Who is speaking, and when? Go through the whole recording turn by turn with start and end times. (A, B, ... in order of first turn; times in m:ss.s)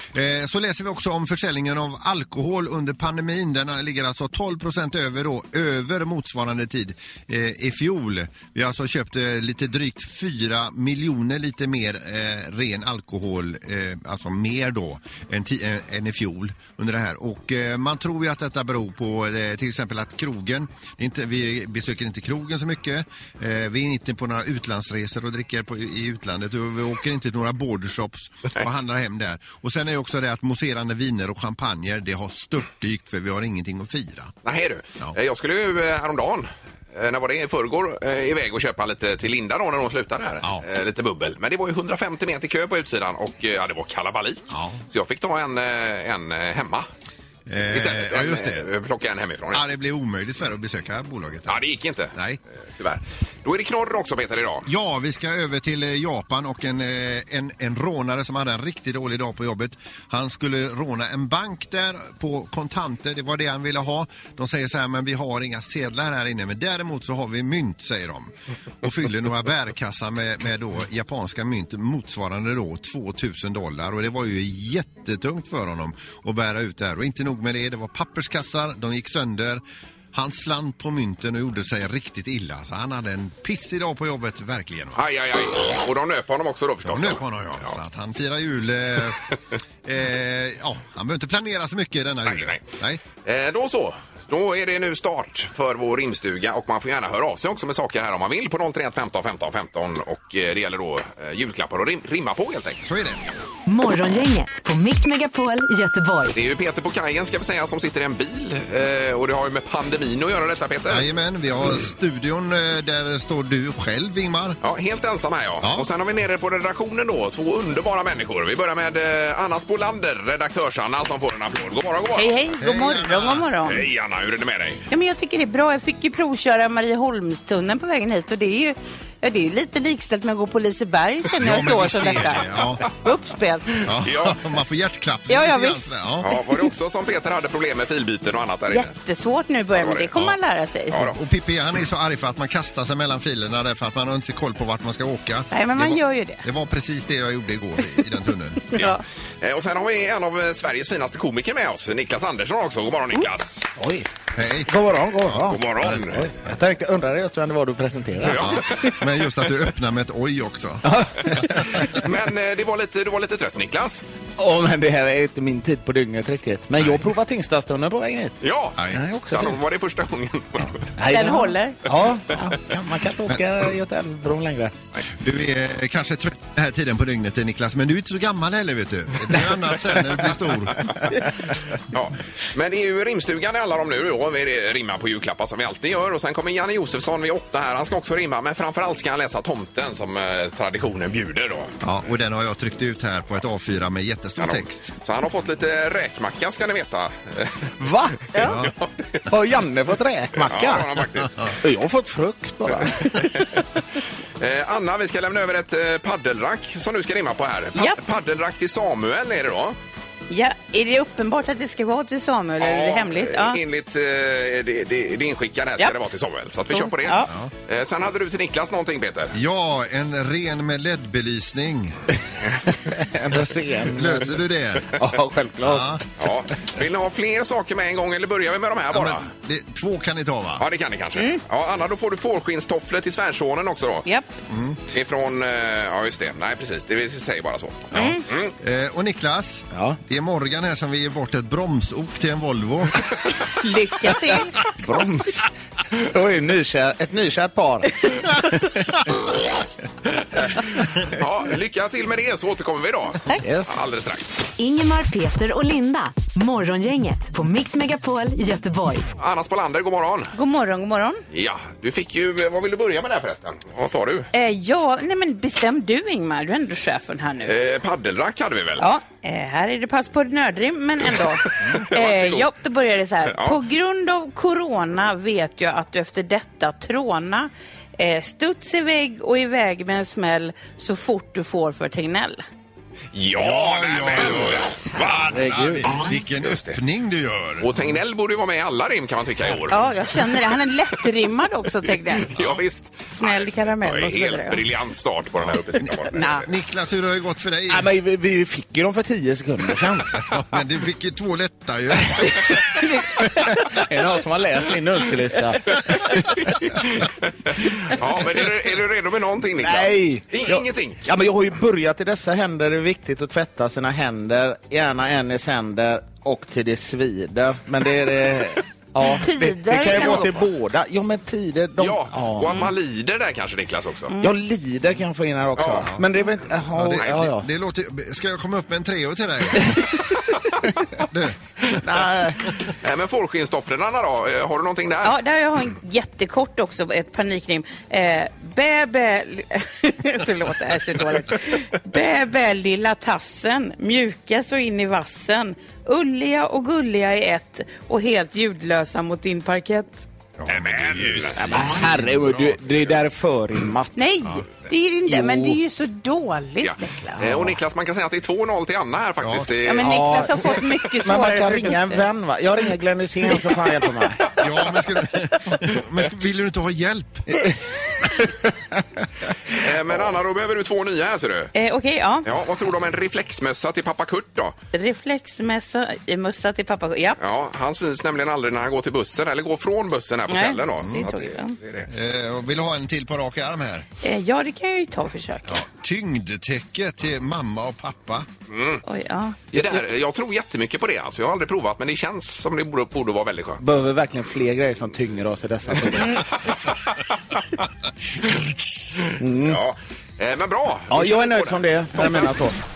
0:00.1-0:34.3 A
0:34.4-0:46.9 B
0:44.5-0:44.8 A
0:47.5-0:48.7 A
0:47.7-0:49.6 B
0:49.5-0:51.6 A
0:51.5-0:52.2 B
0:52.1-0:52.4 A
0:52.8-0:54.7 B
0:54.7-1:19.6 A
1:20.1-1:25.0 A
1:25.0-1:27.8 B
1:26.8-1:29.2 A
1:29.8-1:33.0 A
1:32.3-1:32.6 B
1:33.2-1:42.8 B
1:42.8-1:43.2 A
1:43.7-1:46.4 C
1:46.3-1:51.1 B
1:50.9-1:54.6 A
1:54.6-2:02.3 B
1:55.6-1:55.9 A
2:02.2-2:03.8 D
2:02.6-2:03.5 A
2:03.6-2:04.8 B
2:04.9-2:13.8 D
2:11.4-2:12.9 A
2:13.8-2:16.3 A
2:13.9-2:14.4 B
2:15.3-2:15.9 D
2:16.2-2:18.9 B
2:18.7-2:21.0 D
2:19.7-2:20.1 B
2:21.0-2:28.9 A
2:25.5-2:26.4 D
2:28.7-2:29.0 D
2:28.8-2:33.7 B
2:33.8-2:34.1 E
2:34.4-2:34.7 A
2:34.7-2:38.5 E
2:35.5-2:36.3 B
2:38.2-2:38.9 B
2:38.3-2:41.4 A
2:40.8-2:41.8 E
2:41.8-2:44.0 B
2:44.4-2:48.4 E
2:48.4-2:48.8 B
2:48.9-2:49.6 E
2:49.3-2:50.8 B
2:51.0-2:54.7 E
2:51.1-2:51.8 D
2:55.1-3:00.8 A
3:01.9-3:11.8 B
3:11.8-3:14.9 A
3:14.4-3:17.7 B
3:17.8-3:18.5 E
3:18.4-3:18.7 A
3:18.4-3:18.9 B
3:19.3-3:20.9 E
3:20.4-3:21.3 B
3:21.6-3:23.3 E
3:24.4-3:29.8 B
3:30.3-3:33.6 D
3:32.6-3:39.4 B
3:36.7-3:37.3 D
3:39.3-3:42.0 A
3:43.0-3:44.3 E
3:43.9-3:44.9 A
3:45.0-3:45.9 E
3:45.6-3:46.0 A
3:46.2-3:49.3 B
3:48.9-3:50.6 A
3:50.6-3:54.1 B
3:54.5-3:54.8 A
3:54.9-3:58.5 B
3:57.9-4:03.1 A
3:57.9-3:58.2 D
4:03.6-4:04.6 D
4:04.8-4:09.0 E
4:11.2-4:14.3 B
4:13.4-4:13.8 E
4:14.6-4:19.1 C
4:19.2-4:20.3 B
4:20.3-4:21.2 D
4:21.3-4:24.3 B
4:24.3-4:27.6 D
4:27.5-4:28.8 B
4:28.8-4:42.4 D
4:31.4-4:32.5 B
4:33.3-4:33.6 B
4:43.1-4:45.4 B
4:43.4-4:47.7 A
4:45.1-4:45.9 E
4:46.4-4:46.8 B
4:47.6-4:50.2 B
4:49.7-4:52.3 D
4:52.2-4:56.4 B
4:53.2-4:54.6 D
4:55.8-4:57.9 A
4:56.1-4:56.5 D
4:57.7-5:00.1 E
5:00.1-5:02.6 A
5:02.1-5:06.2 E
5:06.4-5:11.0 B
5:09.6-5:22.7 E
5:19.2-5:20.3 D
5:19.9-5:20.2 B
5:21.8-5:24.1 B
5:24.2-5:27.5 E
5:25.6-5:25.9 B
5:26.7-5:29.8 A
5:31.1-5:31.4 A
5:31.8-5:32.5 E
5:32.8-5:35.1 B
5:35.0-5:50.1 D
5:50.4-5:51.3 A
5:50.5-5:51.5 B
5:51.4-5:54.0 E
5:54.0-5:57.2 D
5:55.1-5:55.6 E
5:56.6-5:59.9 B
5:59.2-5:59.5 A
5:59.6-6:02.0 D
5:59.8-6:00.4 E
6:01.0-6:04.3 E
6:04.4-6:07.3 A
6:09.6-6:11.5 B
6:11.5-6:12.3 D
6:12.2-6:14.6 B
6:14.7-6:17.2 D
6:17.2-6:21.9 B
6:20.3-6:21.6 D
6:20.8-6:21.1 A
6:21.9-6:23.9 A
6:24.0-6:25.6 D
6:25.5-6:28.3 A
6:28.5-6:28.8 B
6:28.8-6:29.4 D
6:29.5-6:33.6 B
6:33.6-6:36.2 E
6:39.2-6:39.6 E
6:39.4-6:42.3 B
6:40.9-6:42.6 E